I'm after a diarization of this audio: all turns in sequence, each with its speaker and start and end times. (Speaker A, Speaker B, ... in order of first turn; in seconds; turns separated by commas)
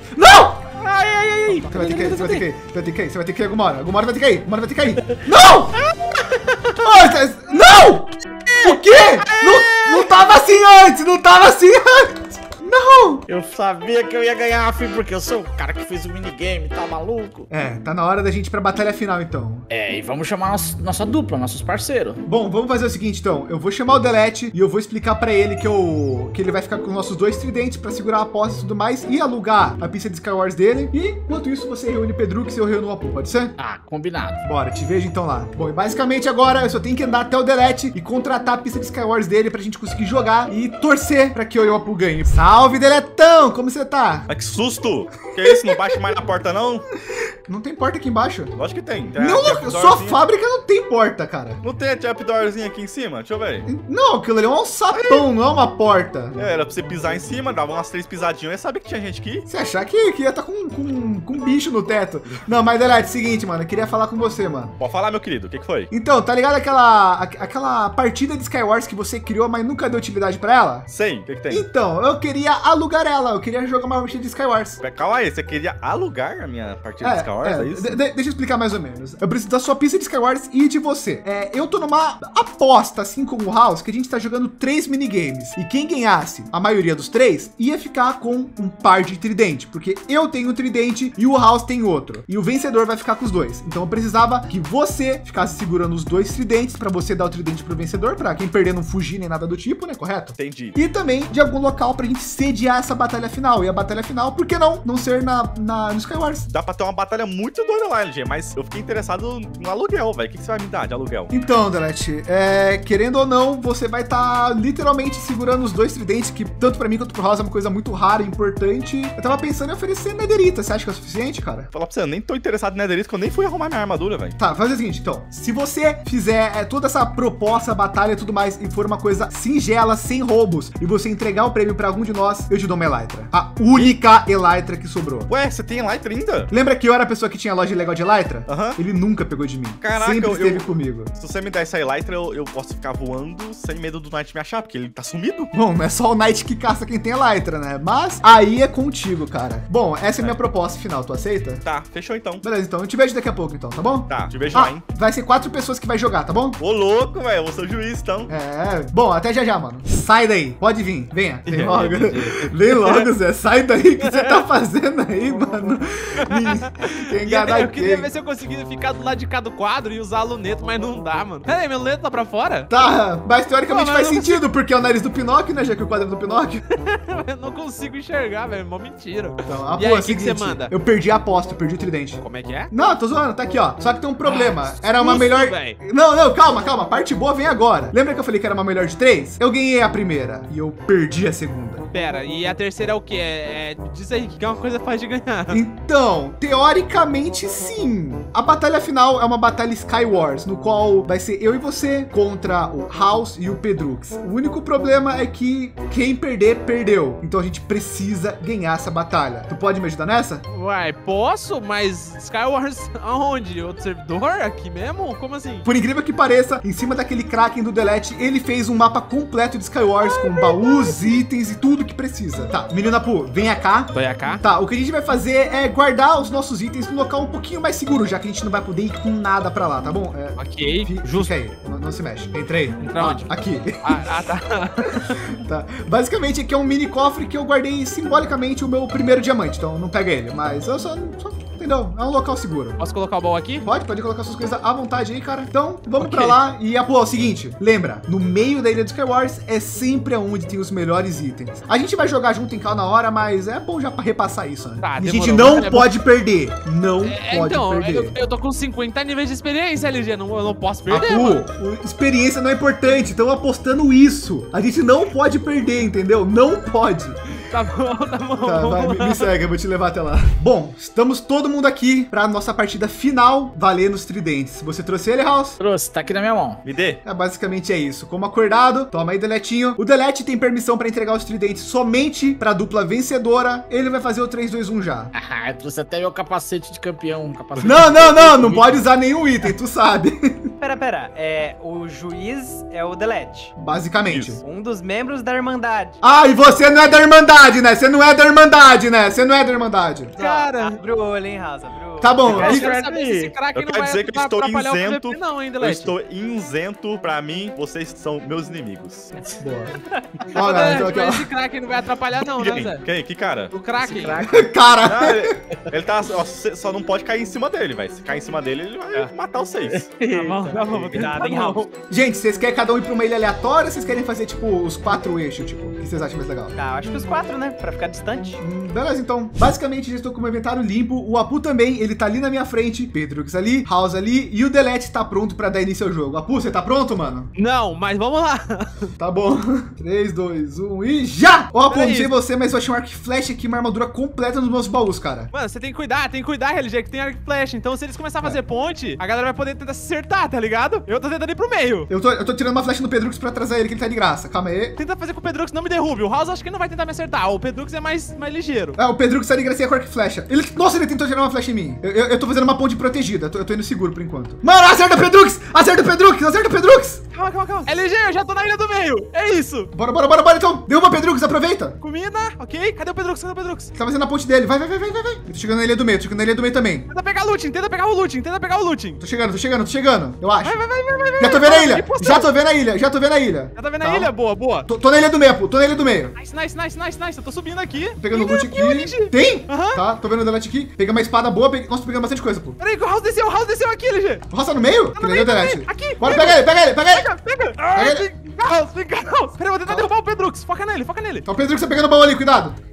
Speaker A: 0.1-0.6, Speaker B: 0.5-2.4, Speaker A: 1.5-5.8, Speaker B: 5.0-6.8, Speaker A: 6.8-13.2, Speaker B: 8.5-10.1, Speaker B: 13.3-17.5, Speaker A: 17.5-19.7, Speaker B: 19.7-22.2, Speaker A: 22.2-33.5, Speaker B: 33.6-34.4, Speaker A: 34.4-44.3, Speaker C: 44.3-46.8, Speaker A: 45.5-46.0, Speaker A: 47.5-48.5, Speaker C: 48.5-50.2, Speaker A: 49.2-51.6, Speaker C: 51.6-53.7, Speaker A: 53.6-56.4, Speaker C: 54.9-55.2, Speaker C: 56.4-59.5, Speaker A: 59.5-64.7, Speaker C: 64.8-65.9, Speaker A: 65.9-70.9, Speaker C: 70.9-71.7, Speaker A: 71.5-74.8, Speaker C: 74.8-78.0, Speaker A: 77.0-106.5, Speaker C: 100.4-100.8, Speaker C: 106.5-111.3, Speaker A: 111.3-121.7, Speaker C: 121.7-124.3, Speaker A: 124.4-135.3, Speaker C: 135.3-136.5, Speaker A: 136.5-141.1, Speaker C: 138.5-138.8, Speaker C: 139.8-145.5, Speaker A: 145.5-151.6, Speaker C: 151.6-152.4, Speaker A: 152.4-156.6, Speaker C: 154.1-154.8, Speaker C: 156.6-158.3, Speaker A: 158.3-168.1, Speaker C: 161.5-162.1, Speaker D: 161.6-163.1, Speaker D: 164.0-164.4, Speaker D: 166.2-172.7, Speaker A: 172.7-176.6, Speaker D: 173.7-174.4, Speaker D: 176.7-180.7, Speaker A: 179.5-191.8, Speaker D: 182.2-182.7, Speaker D: 184.2-185.8, Speaker D: 191.9-195.6, Speaker A: 195.5-210.4, Speaker D: 210.5-215.7, Speaker A: 215.6-234.2, Speaker D: 223.9-224.4, Speaker D: 230.4-231.3, Speaker D: 232.8-233.3, Speaker D: 233.8-235.2, Speaker A: 234.8-242.8, Speaker D: 242.8-243.7, Speaker A: 243.6-258.1, Speaker D: 246.0-246.4, Speaker D: 254.8-255.9, Speaker D: 257.0-261.4, Speaker A: 260.9-267.2, Speaker D: 267.5-269.3, Speaker A: 268.4-275.6, Speaker B: 275.6-276.6, Speaker C: 276.6-277.0, Speaker A: 277.0-285.1, Speaker B: 285.1-288.8, Speaker A: 287.6-290.5, Speaker E: 290.6-293.5, Speaker A: 293.6-294.4, Speaker C: 294.1-294.4, Speaker E: 294.4-296.0, Speaker A: 296.0-300.1, Speaker E: 300.1-302.4, Speaker D: 300.2-300.8, Speaker A: 302.0-302.7, Speaker D: 302.2-305.9, Speaker B: 302.3-303.3, Speaker C: 303.5-309.1, Speaker A: 309.2-309.8, Speaker D: 310.2-312.8, Speaker A: 310.3-311.3, Speaker C: 312.2-313.5, Speaker D: 313.5-314.2, Speaker B: 313.8-314.5, Speaker A: 314.2-315.4, Speaker C: 314.8-319.9, Speaker B: 319.6-321.3, Speaker D: 320.1-321.7, Speaker E: 320.8-321.7, Speaker A: 321.9-326.5, Speaker E: 326.6-328.4, Speaker A: 328.4-337.3, Speaker D: 337.4-338.9, Speaker A: 339.0-345.3, Speaker D: 341.7-342.1, Speaker D: 345.3-351.9, Speaker A: 351.9-354.8, Speaker D: 354.8-358.8, Speaker A: 358.8-367.0, Speaker D: 367.1-369.7, Speaker A: 369.7-371.8, Speaker D: 371.8-373.7, Speaker A: 373.7-376.9, Speaker D: 376.9-379.0, Speaker A: 379.0-380.5, Speaker D: 380.4-382.3, Speaker A: 381.2-384.1, Speaker D: 383.6-384.7, Speaker A: 384.6-386.1, Speaker D: 386.1-389.8, Speaker A: 388.0-392.6, Speaker D: 392.6-394.2, Speaker A: 394.3-397.1, Speaker D: 394.9-401.2, Speaker A: 397.7-398.1, Speaker A: 399.6-399.9, Speaker A: 401.2-402.6